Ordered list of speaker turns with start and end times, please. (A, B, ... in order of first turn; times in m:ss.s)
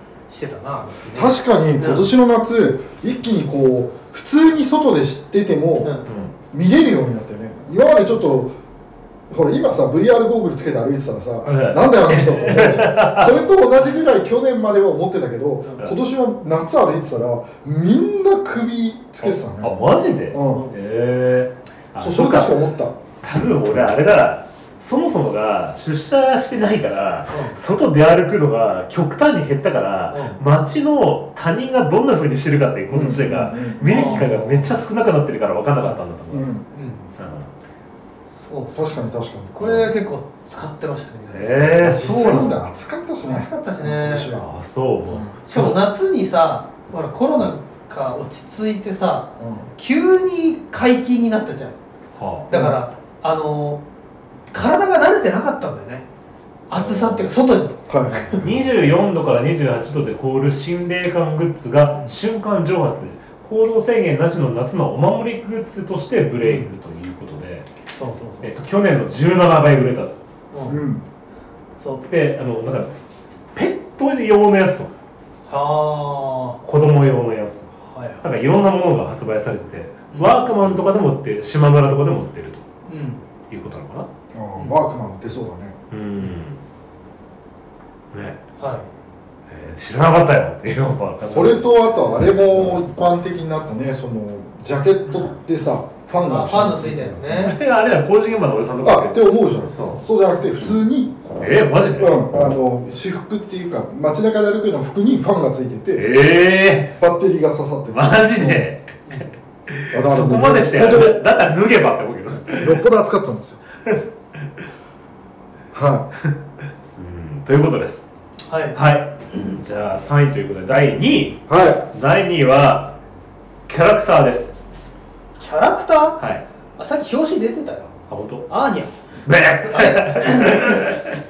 0:00.3-0:02.1 A
0:01.1-0:06.0 B
0:05.8-0:06.1 A
0:06.1-0:06.3 C
0:06.5-0:08.5 B
0:09.3-0:19.8 B
0:11.4-0:13.4 C
0:15.6-0:15.9 A
0:19.2-0:22.6 C
0:20.3-0:20.7 B
0:22.0-0:22.9 B
0:23.2-0:36.5 C
0:27.3-0:27.6 A
0:30.1-0:30.4 A
0:32.9-0:34.3 B
0:33.8-0:34.7 A
0:36.3-0:36.6 B
0:36.7-0:37.1 A
0:37.2-0:37.5 C
0:38.4-0:38.9 A
0:38.7-0:39.7 B
0:39.5-0:42.6 A
0:41.3-0:42.5 C
0:41.8-0:44.5 B
0:43.2-0:44.3 A
0:44.2-0:45.8 C
0:45.5-0:51.8 A
0:49.4-0:49.7 B
0:52.1-0:52.5 C
0:52.5-0:53.8 A
0:52.5-0:52.8 B
0:54.5-0:56.0 A
0:56.7-0:58.4 A
0:56.8-0:57.2 C
0:57.9-0:58.6 B
0:58.4-1:07.7 C
1:06.4-1:06.7 A
1:07.9-1:08.5 A
1:08.4-1:10.2 C
1:10.5-1:10.8 A
1:10.7-1:11.0 B
1:11.8-1:12.0 A
1:12.0-1:12.9 C
1:13.5-1:14.9 C
1:15.5-1:16.6 A
1:16.6-1:22.6 C
1:17.9-1:18.2 A
1:20.1-1:20.4 A
1:22.9-1:23.2 A
1:23.5-1:24.1 C
1:24.3-1:25.8 B
1:25.9-1:26.6 C
1:28.1-1:28.4 C
1:28.6-1:28.9 A
1:29.5-1:31.7 C
1:31.3-1:37.5 B
1:36.2-1:37.5 A
1:37.3-1:40.0 C
1:38.8-1:41.2 B
1:41.4-1:42.2 C
1:42.0-1:46.1 B
1:46.0-1:46.9 C
1:47.0-1:48.6 B
1:47.9-1:49.0 C
1:49.7-1:52.8 C
1:49.9-1:51.2 B
1:52.6-1:53.6 B
1:55.7-1:56.1 B
1:56.2-1:58.0 C
1:58.5-1:58.8 A
1:58.7-2:03.0 C
2:01.5-2:01.8 B
2:03.7-2:04.5 C
2:05.4-2:06.2 A
2:06.8-2:07.9 A
2:08.1-2:08.5 C
2:08.5-2:08.9 A
2:09.2-2:11.2 C
2:09.6-2:10.8 A